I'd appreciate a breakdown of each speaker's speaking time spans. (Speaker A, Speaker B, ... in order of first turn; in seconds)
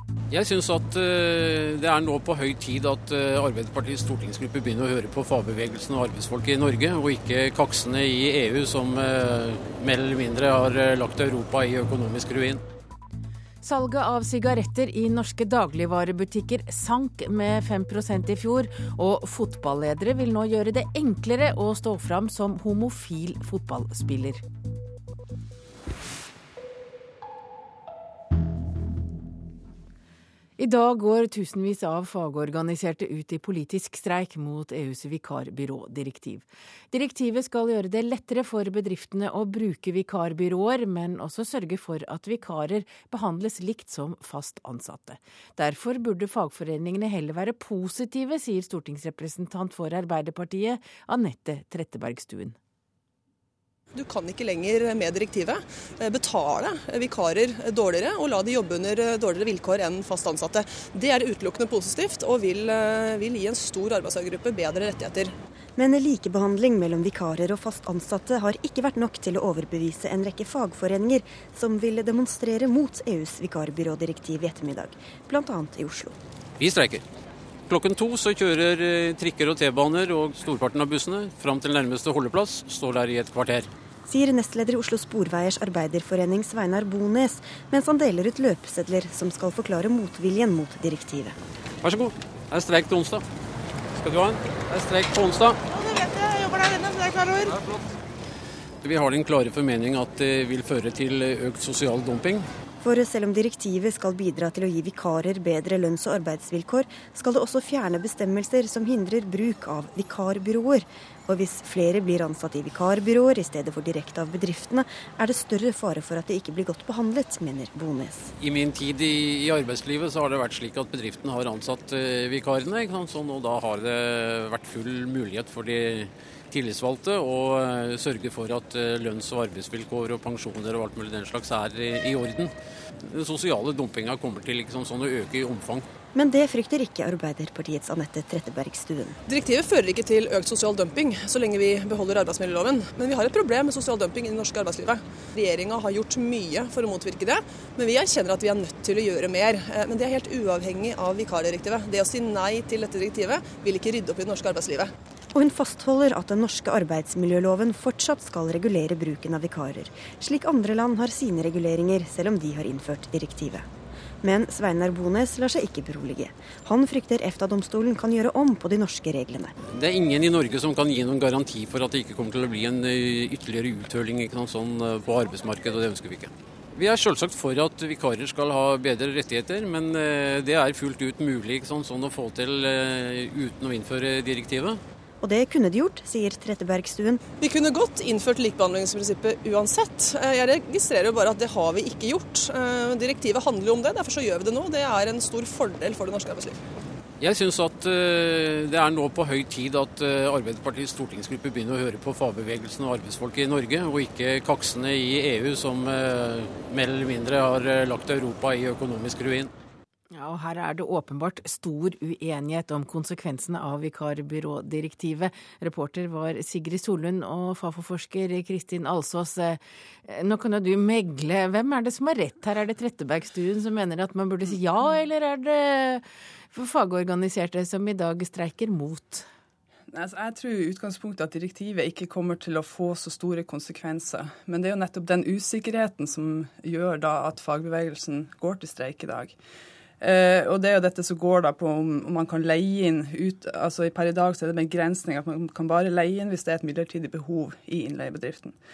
Speaker A: 0.3-12.6, 76.6-77.0, 77.7-83.7, 91.8-93.2, 94.0-95.6, 98.8-102.5, 118.4-132.5, 133.0-135.9, 169.7-184.8, 197.2-209.5
Speaker B: 13.6-24.4, 30.6-52.5, 210.1-229.2
Speaker C: 53.9-65.3, 96.0-97.3, 139.3-154.9, 187.4-196.6
Speaker D: 65.8-76.2, 84.1-91.3, 102.8-118.3, 136.1-139.2, 155.3-163.7, 164.2-169.5, 185.2-187.2
Speaker E: 229.9-239.3, 240.0-248.6